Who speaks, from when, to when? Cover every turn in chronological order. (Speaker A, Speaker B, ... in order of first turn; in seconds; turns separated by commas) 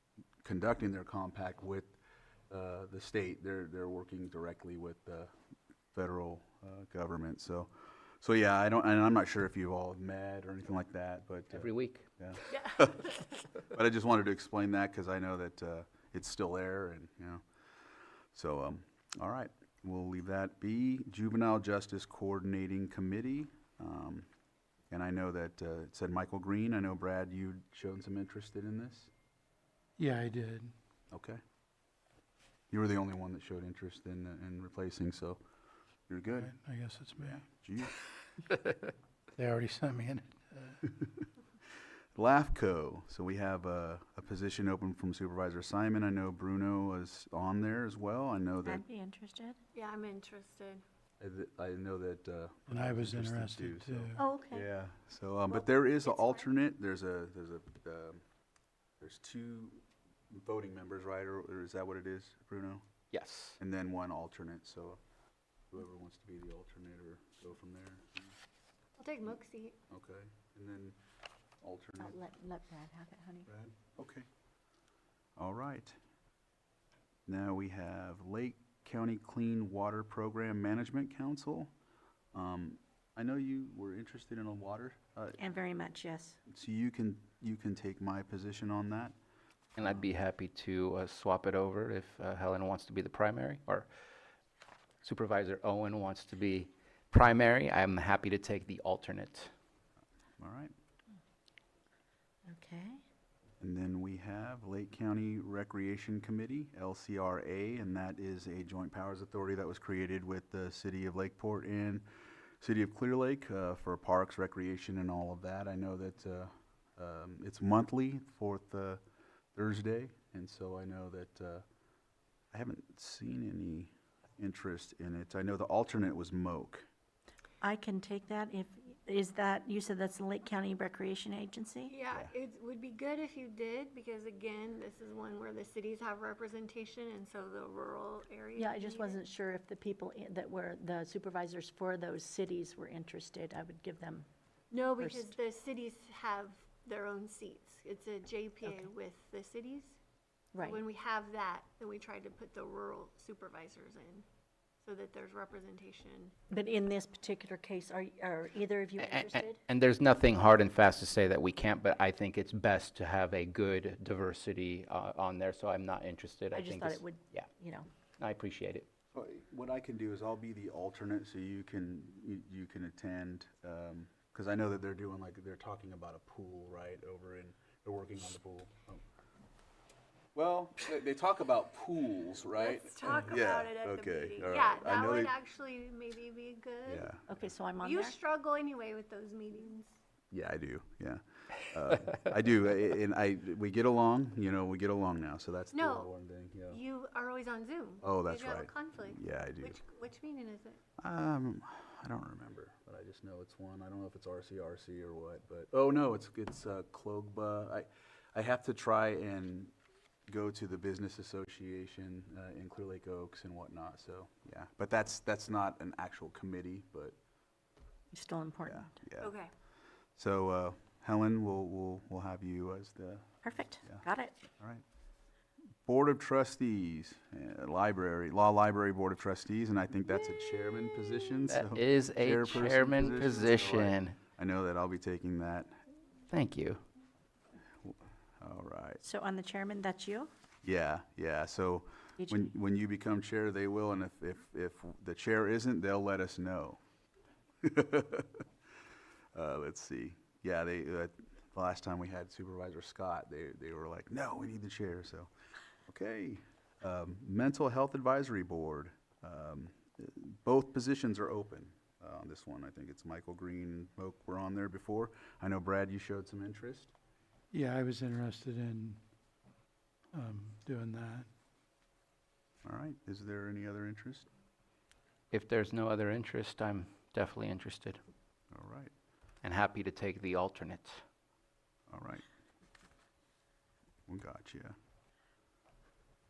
Speaker A: 0.4-1.9, Speaker A: 2.5-5.3, Speaker A: 5.9-17.4, Speaker B: 11.5-12.1, Speaker C: 12.5-13.3, Speaker A: 18.3-24.3, Speaker A: 24.9-29.1, Speaker D: 30.0-30.7, Speaker A: 31.1-31.4, Speaker A: 32.7-35.4, Speaker A: 36.1-36.5, Speaker D: 36.3-37.4, Speaker A: 37.2-38.0, Speaker D: 39.4-40.9, Speaker A: 42.1-48.8, Speaker E: 48.6-49.6, Speaker C: 49.7-50.8, Speaker A: 51.2-58.2, Speaker D: 52.7-54.2, Speaker E: 54.2-54.6, Speaker A: 59.0-62.8, Speaker B: 63.1-63.6, Speaker A: 63.6-65.0, Speaker A: 65.7-68.3, Speaker C: 69.0-69.8, Speaker A: 69.9-71.0, Speaker A: 71.6-72.2, Speaker E: 72.0-73.5, Speaker A: 73.5-74.3, Speaker A: 75.4-76.0, Speaker A: 77.3-81.7, Speaker A: 82.3-85.4, Speaker E: 85.4-86.4, Speaker A: 86.5-89.1, Speaker B: 89.8-93.9, Speaker B: 95.0-99.5, Speaker A: 100.4-100.7, Speaker E: 102.5-103.0, Speaker A: 103.6-112.0, Speaker A: 112.6-119.0, Speaker A: 119.5-121.6, Speaker A: 122.5-126.9, Speaker E: 127.6-131.9, Speaker C: 131.9-139.2, Speaker E: 138.6-144.3, Speaker C: 144.7-150.0, Speaker E: 145.0-145.3, Speaker E: 150.5-150.8, Speaker C: 150.6-154.2, Speaker C: 154.8-156.3, Speaker E: 156.5-159.6, Speaker B: 159.0-167.5, Speaker E: 166.5-167.9, Speaker B: 168.2-168.9, Speaker A: 169.1-179.0, Speaker A: 180.3-185.3, Speaker C: 182.5-187.1, Speaker A: 186.8-187.5, Speaker E: 187.3-188.2, Speaker C: 187.8-189.9, Speaker A: 190.3-196.8, Speaker C: 195.7-196.1, Speaker C: 196.7-200.8, Speaker A: 198.0-199.8, Speaker A: 201.0-209.7, Speaker A: 210.3-217.2, Speaker E: 218.1-219.0, Speaker A: 218.7-219.3, Speaker C: 219.2-219.5, Speaker A: 220.2-224.0, Speaker E: 223.4-224.4, Speaker A: 225.8-235.8, Speaker B: 231.5-234.2, Speaker B: 236.3-236.8, Speaker A: 237.8-239.0, Speaker E: 239.0-240.3, Speaker A: 240.6-246.8, Speaker A: 247.6-248.4, Speaker A: 249.3-255.3, Speaker A: 255.8-266.9, Speaker D: 267.5-269.0, Speaker D: 270.1-271.3, Speaker A: 272.6-274.3, Speaker B: 275.3-278.0, Speaker A: 278.5-278.9, Speaker B: 279.4-281.0, Speaker A: 281.9-282.2, Speaker A: 284.1-284.8